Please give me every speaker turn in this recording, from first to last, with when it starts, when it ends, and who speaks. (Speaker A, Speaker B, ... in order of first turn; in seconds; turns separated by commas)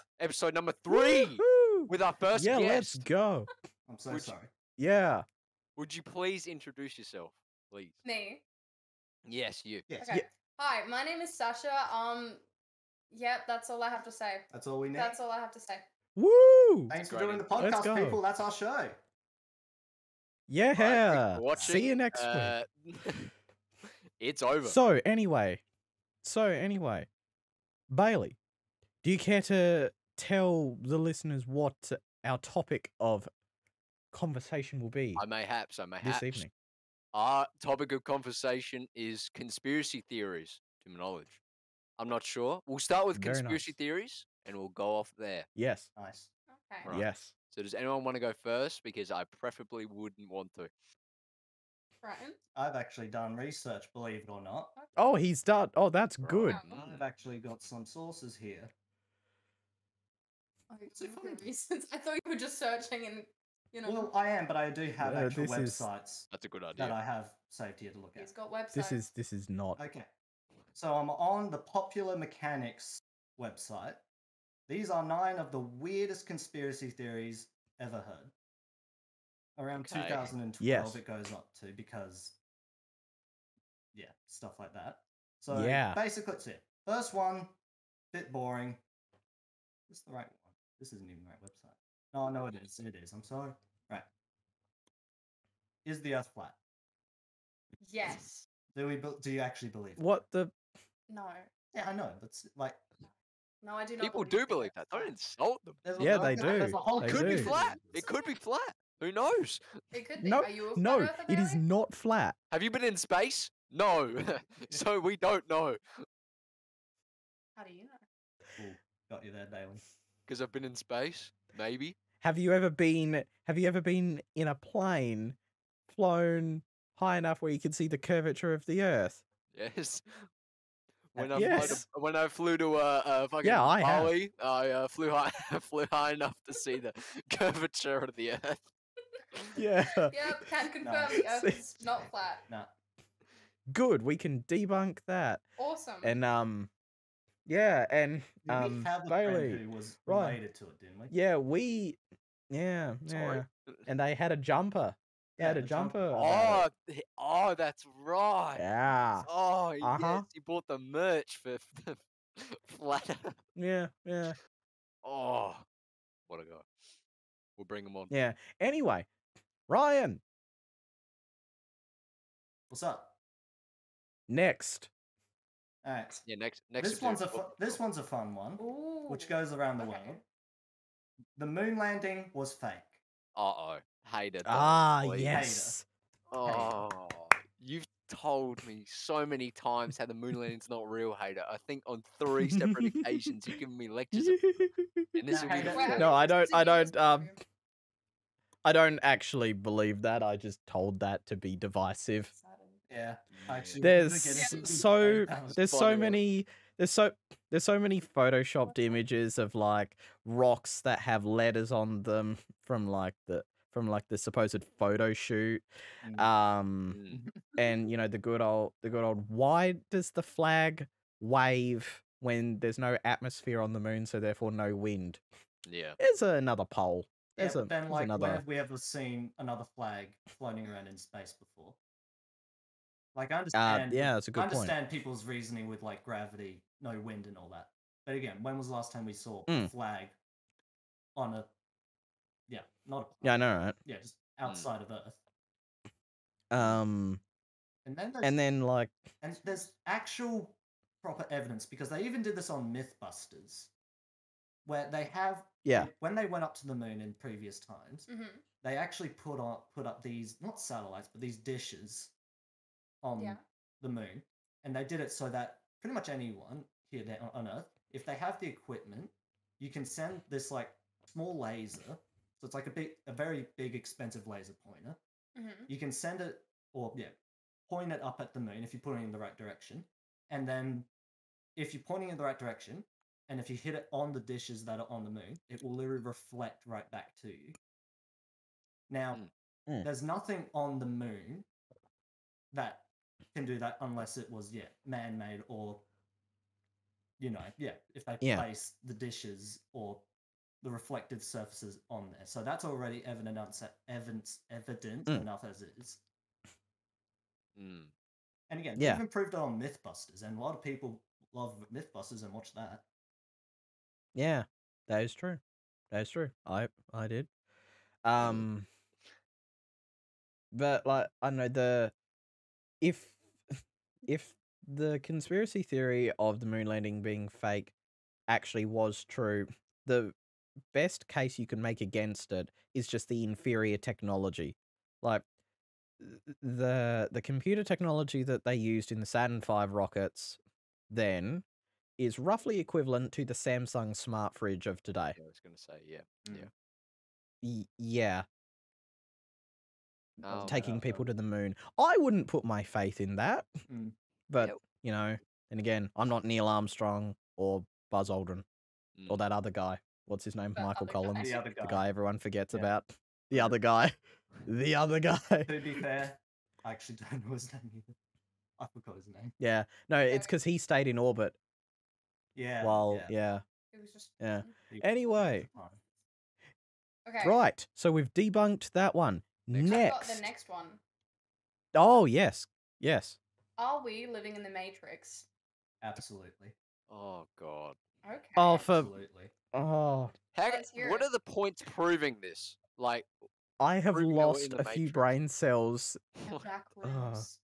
Speaker A: 0.2-3.0, Speaker B: 0.9-3.5, Speaker C: 3.9-4.5, Speaker A: 4.1-4.3, Speaker B: 4.8-5.2, Speaker A: 5.8-8.0, Speaker D: 8.0-8.4, Speaker A: 9.2-9.9, Speaker C: 9.9-10.1, Speaker D: 10.0-12.4, Speaker D: 13.1-15.9, Speaker C: 14.5-15.2, Speaker B: 16.2-16.9, Speaker C: 16.9-19.0, Speaker A: 17.0-17.8, Speaker B: 17.6-18.2, Speaker B: 20.5-22.6, Speaker A: 20.8-23.3, Speaker C: 21.5-21.8, Speaker A: 24.2-24.8, Speaker B: 24.6-25.6, Speaker B: 26.2-27.1, Speaker B: 27.9-28.4, Speaker B: 29.0-33.3, Speaker B: 34.1-35.2, Speaker A: 35.2-36.5, Speaker B: 36.0-36.5, Speaker A: 37.1-41.4, Speaker A: 42.0-45.5, Speaker B: 43.1-43.7, Speaker B: 45.5-45.9, Speaker C: 46.0-46.3, Speaker D: 46.5-46.9, Speaker A: 46.9-50.7, Speaker B: 46.9-47.3, Speaker D: 52.0-52.4, Speaker C: 52.5-54.8, Speaker D: 54.8-55.1, Speaker B: 55.0-56.6, Speaker A: 56.2-57.0, Speaker D: 56.5-56.8, Speaker C: 56.7-58.7, Speaker D: 60.7-64.1, Speaker C: 60.9-61.4, Speaker C: 63.9-68.3, Speaker B: 65.0-65.8, Speaker A: 66.3-67.0, Speaker D: 68.2-69.0, Speaker B: 68.7-69.8, Speaker C: 69.8-70.1, Speaker C: 70.7-74.0, Speaker C: 74.7-78.3, Speaker C: 79.5-82.4, Speaker A: 79.7-80.3, Speaker B: 80.6-81.0, Speaker C: 83.9-87.5, Speaker B: 85.5-86.0, Speaker C: 88.1-88.8, Speaker C: 89.9-94.0, Speaker C: 95.8-96.5, Speaker D: 97.8-98.5, Speaker C: 98.7-100.2, Speaker B: 100.0-100.5, Speaker D: 101.1-101.5, Speaker C: 101.7-102.8, Speaker D: 103.6-105.1, Speaker A: 104.0-109.8, Speaker C: 105.8-108.0, Speaker B: 106.0-107.5, Speaker D: 107.4-108.2, Speaker D: 109.9-111.6, Speaker B: 110.2-112.3, Speaker A: 112.5-116.0, Speaker D: 117.5-118.0, Speaker C: 118.6-119.8, Speaker A: 120.3-122.0, Speaker B: 122.2-125.4, Speaker B: 125.9-129.2, Speaker A: 129.5-130.3, Speaker A: 131.1-138.7, Speaker C: 131.2-131.8, Speaker B: 131.3-131.8, Speaker B: 133.4-134.1, Speaker B: 139.6-140.5, Speaker D: 139.9-142.4, Speaker C: 140.8-141.2, Speaker B: 141.2-141.6, Speaker C: 142.5-142.7, Speaker B: 143.7-145.4, Speaker D: 145.6-146.2, Speaker B: 146.0-146.7, Speaker B: 147.5-150.4, Speaker C: 148.5-151.1, Speaker B: 151.1-152.0, Speaker B: 152.5-156.6, Speaker A: 153.1-153.9, Speaker C: 155.4-156.6, Speaker A: 156.1-158.7, Speaker B: 158.6-159.3, Speaker A: 159.2-163.4, Speaker B: 159.8-160.3, Speaker B: 163.6-164.4, Speaker A: 165.0-165.7, Speaker A: 166.3-166.7, Speaker A: 167.6-168.1, Speaker B: 168.1-169.1, Speaker B: 169.7-170.2, Speaker C: 172.7-173.1, Speaker B: 174.3-174.9, Speaker C: 175.8-176.2, Speaker A: 176.2-177.8, Speaker C: 176.8-180.2, Speaker D: 178.6-180.2, Speaker C: 181.4-183.0, Speaker A: 183.3-185.4, Speaker B: 184.4-185.9, Speaker C: 185.2-185.8, Speaker A: 186.3-194.6, Speaker B: 192.4-193.0, Speaker B: 194.1-195.1, Speaker A: 195.1-196.1, Speaker C: 195.3-196.2, Speaker D: 195.3-197.4, Speaker B: 195.9-197.3, Speaker B: 198.6-202.3, Speaker D: 202.3-202.8, Speaker C: 202.9-205.6, Speaker A: 203.3-203.8, Speaker B: 203.8-215.6, Speaker D: 204.3-204.7, Speaker A: 205.6-206.2, Speaker D: 208.7-209.0, Speaker C: 216.0-216.3, Speaker B: 216.1-217.0, Speaker A: 216.9-217.2, Speaker C: 217.1-217.6, Speaker B: 217.6-225.2, Speaker A: 225.7-226.0, Speaker B: 226.0-228.4, Speaker C: 227.4-231.8, Speaker C: 233.2-240.2, Speaker B: 233.5-234.8, Speaker C: 241.2-241.5, Speaker C: 242.5-245.2, Speaker B: 243.2-243.8, Speaker B: 246.5-247.2, Speaker C: 247.8-248.5, Speaker B: 248.2-249.0, Speaker C: 249.2-253.7, Speaker C: 254.7-258.1, Speaker B: 255.7-255.9, Speaker D: 258.1-258.4, Speaker C: 258.6-262.1, Speaker C: 263.0-275.0, Speaker D: 275.3-275.7, Speaker C: 275.7-277.1, Speaker C: 277.7-280.9, Speaker C: 281.6-287.6, Speaker C: 288.9-289.3, Speaker C: 289.8-291.5, Speaker C: 292.5-295.8, Speaker C: 297.2-300.1, Speaker B: 298.2-298.5, Speaker C: 300.6-306.0, Speaker A: 307.6-307.9, Speaker C: 308.5-312.9, Speaker B: 308.8-309.0, Speaker B: 314.1-315.4, Speaker B: 315.9-317.3, Speaker B: 318.0-318.7, Speaker B: 320.5-321.9, Speaker B: 322.8-323.2, Speaker B: 324.0-327.7, Speaker B: 328.3-330.1, Speaker B: 330.7-335.2, Speaker B: 336.0-340.4, Speaker B: 340.9-341.4, Speaker B: 342.0-345.1, Speaker A: 345.1-346.5, Speaker C: 346.2-346.5, Speaker B: 347.4-348.2, Speaker A: 350.2-350.6, Speaker C: 350.3-351.1, Speaker B: 350.3-353.5, Speaker C: 353.7-353.9, Speaker B: 354.3-358.4, Speaker A: 358.9-359.2, Speaker B: 359.1-363.9, Speaker D: 360.5-361.4, Speaker C: 361.2-361.8, Speaker B: 364.4-365.7, Speaker C: 365.4-367.9, Speaker C: 368.6-369.3, Speaker B: 369.4-371.4, Speaker D: 370.1-370.3, Speaker C: 372.3-373.1, Speaker B: 372.6-373.4, Speaker D: 373.7-374.5, Speaker B: 374.2-375.5, Speaker C: 374.7-375.8, Speaker D: 377.1-377.4, Speaker B: 377.2-380.2, Speaker A: 379.5-379.8, Speaker D: 379.6-380.8, Speaker B: 381.7-383.2, Speaker D: 383.6-385.2, Speaker C: 385.8-386.5, Speaker A: 386.9-387.8, Speaker D: 388.0-388.7, Speaker B: 388.4-388.9, Speaker C: 388.6-389.3, Speaker B: 389.5-390.1, Speaker A: 390.3-393.1, Speaker D: 390.5-391.1, Speaker B: 393.6-396.0, Speaker A: 393.9-395.1, Speaker D: 396.2-397.4, Speaker B: 396.8-397.2